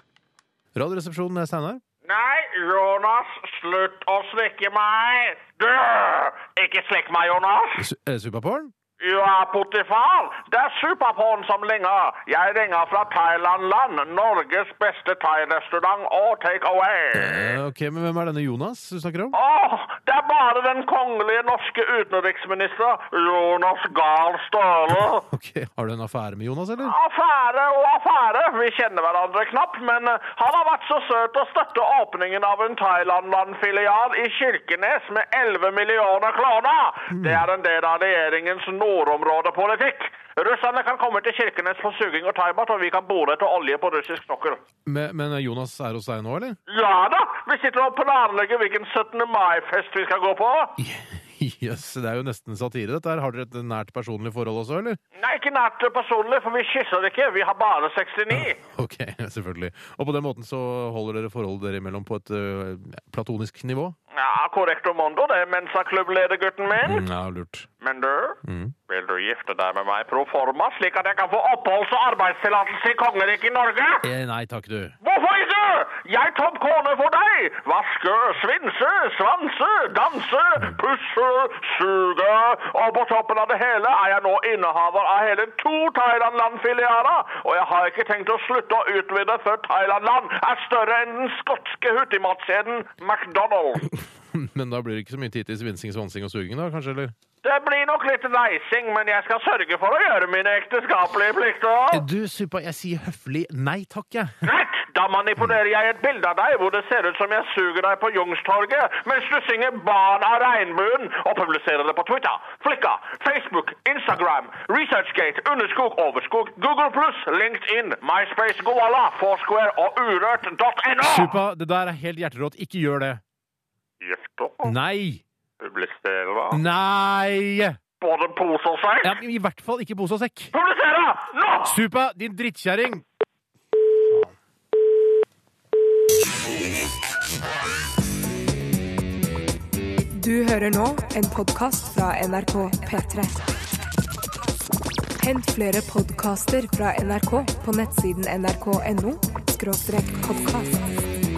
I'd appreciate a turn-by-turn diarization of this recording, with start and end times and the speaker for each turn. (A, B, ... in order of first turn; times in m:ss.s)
0:00.8-0:01.8 A
0:02.0-0:07.8 B
0:07.8-0:08.7 A
0:09.0-0:17.6 B
0:17.2-0:19.4 A
0:19.3-0:25.2 B
0:25.3-0:26.9 A
0:26.8-0:44.6 B
0:37.1-0:37.5 A
0:44.9-0:46.6 A
0:46.7-0:50.8 B
0:50.8-0:55.0 A
0:55.2-0:58.6 B
0:58.6-1:04.0 A
1:04.2-1:07.0 B
1:06.8-1:07.7 A
1:07.8-1:08.4 B
1:08.4-1:08.8 A
1:08.9-1:14.0 B
1:14.0-1:15.0 A
1:15.0-1:33.9 B
1:34.3-1:37.2 A
1:37.4-1:42.0 B
1:41.9-1:44.4 A
1:44.4-2:01.4 B
2:01.0-2:03.2 A
2:04.0-2:04.7 B
2:04.6-2:05.2 A
2:05.6-2:06.6 B
2:06.5-2:07.8 A
2:08.0-2:09.2 B
2:09.0-2:10.5 A
2:10.5-2:11.8 B
2:11.6-2:13.0 A
2:20.1-2:23.4 C
2:25.2-2:31.0 C